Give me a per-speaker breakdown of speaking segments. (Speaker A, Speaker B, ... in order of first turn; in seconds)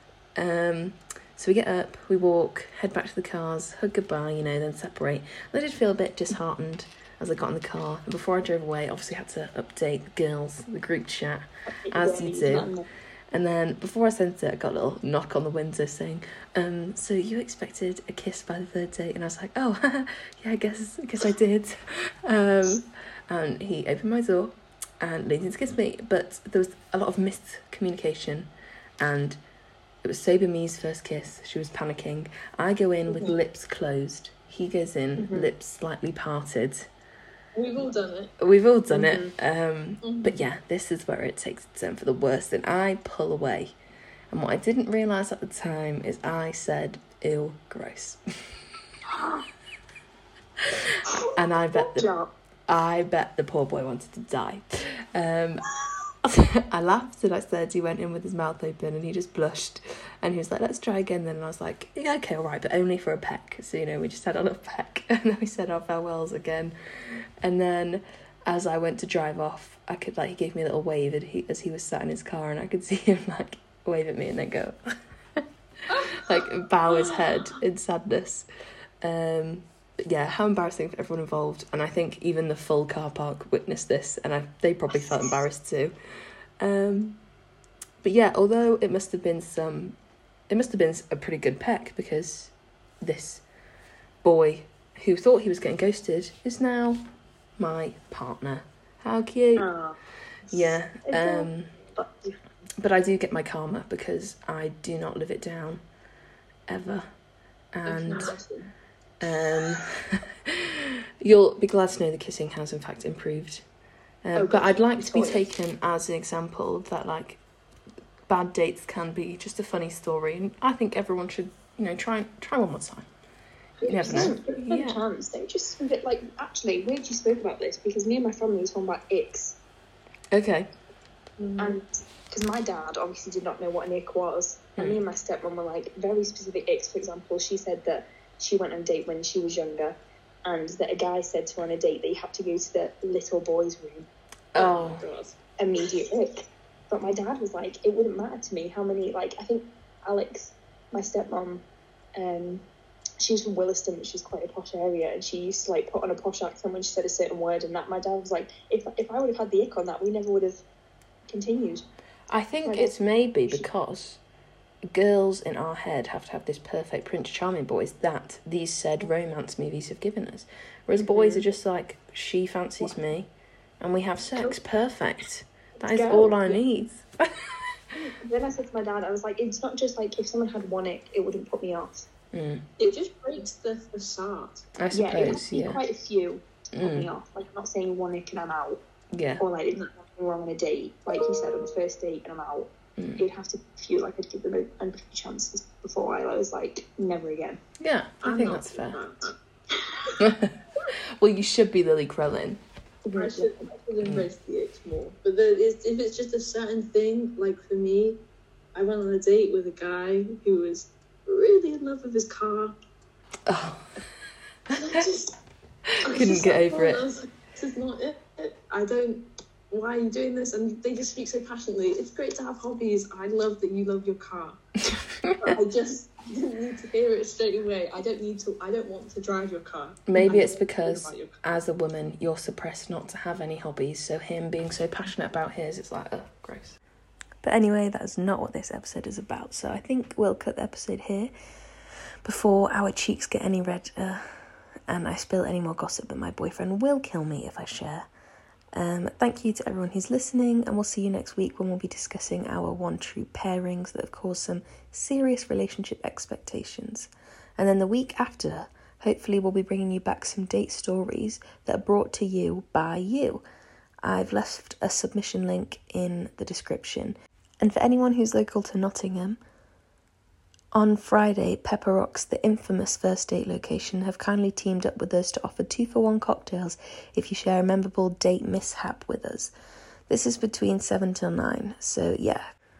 Speaker A: 0.3-12.7, 13.3-29.4, 30.0-36.9, 38.4-43.7, 44.3-48.2, 51.4-52.1, 52.7-55.6, 56.2-66.7, 67.4-74.8, 76.0-78.5, 79.0-85.9, 86.6-87.2, 88.0-90.0, 90.5-93.4, 94.2-97.0, 97.6-99.7, 100.5-101.7, 102.8-105.8, 106.7-107.0, 107.7-108.3, 109.2-113.6, 114.2-117.4, 118.3-123.1, 123.8-125.0, 130.3-130.7, 144.5-145.0, 162.3-164.2, 164.9-177.7, 182.3-182.6, 184.8-185.8, 186.7-187.1, 189.1-189.4, 193.0-193.2, 197.8-199.0, 200.2-200.5, 201.2-202.6, 213.5-214.0, 214.7-215.0, 216.1-217.0, 230.1-236.8, 237.4-241.3, 242.2-248.1, 248.7-263.4, 264.0-269.4, 270.7-279.5, 280.1-282.4
Speaker B: 11.7-12.9, 35.2-35.5, 38.9-39.3, 49.1-49.5, 51.0-52.3, 99.5-100.0, 101.0-102.3, 114.4-115.3, 123.8-129.6, 131.6-144.1, 145.6-151.6, 152.1-152.6, 153.2-160.6, 161.3-161.8, 162.6-163.6, 171.0-171.4, 175.8-176.6, 177.9-182.1, 184.9-188.8, 189.4-197.6, 199.8-200.2, 203.0-203.7, 230.2-230.5
Speaker C: 33.1-33.4, 37.5-38.3, 40.0-40.4, 107.8-108.7, 115.0-115.3, 124.1-124.5, 131.4-131.8, 144.6-145.3, 182.8-184.7, 198.2-199.3, 203.1-208.2, 208.7-212.8, 214.8-215.4, 216.0-224.6, 225.4-231.4